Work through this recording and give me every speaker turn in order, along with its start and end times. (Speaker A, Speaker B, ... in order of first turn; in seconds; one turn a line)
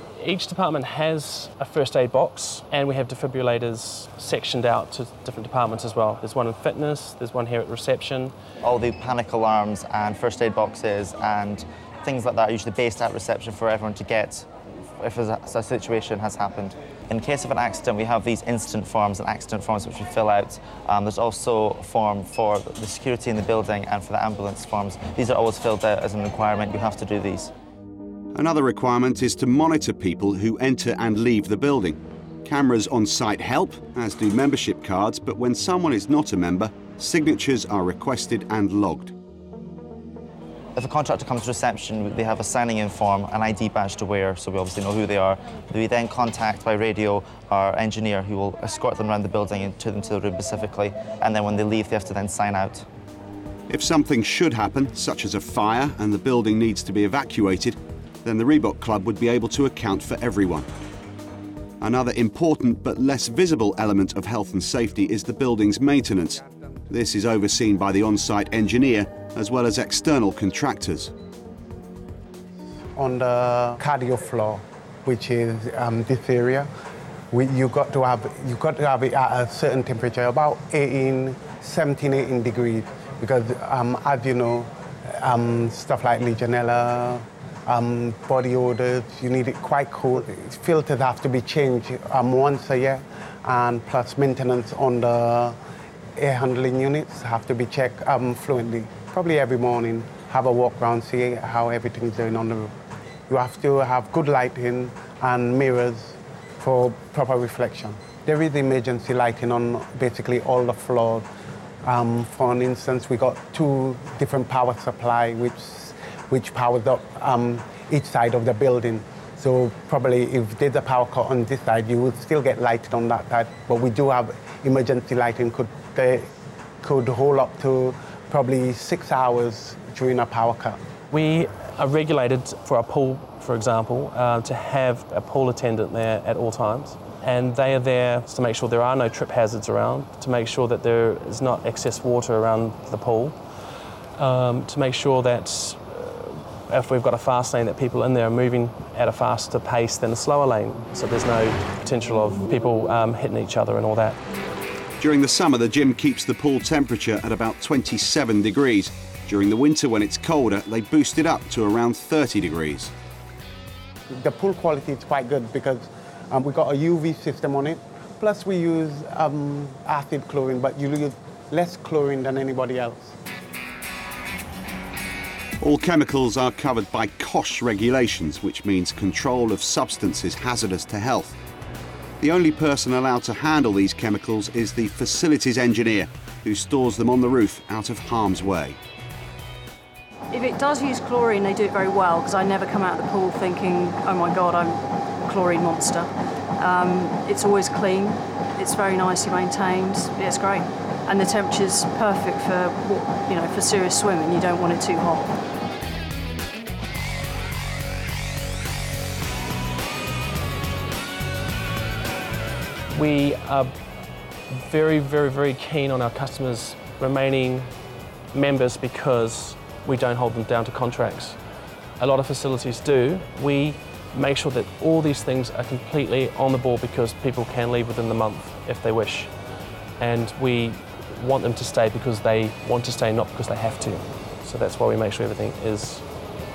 Speaker A: 0.2-8.3
Speaker B: 8.6-27.5
Speaker C: 28.4-39.1
Speaker B: 40.8-52.9
Speaker C: 53.7-60.7
Speaker C: 61.8-71.1
Speaker D: 73.0-76.7
Speaker D: 77.3-95.5
Speaker D: 96.2-102.7
Speaker D: 103.3-111.3
Speaker D: 111.8-126.3
Speaker D: 126.8-130.8
Speaker A: 131.1-143.4
Speaker A: 144.2-154.2
Speaker C: 155.0-162.9
Speaker D: 164.2-173.1
Speaker C: 175.6-181.4
Speaker C: 182.2-188.8
Speaker E: 190.3-205.3
Speaker A: 212.9-213.7
Speaker A: 214.5-217.7
Speaker A: 218.3-221.4
Speaker A: 222.0-229.3
Speaker A: 230.0-236.1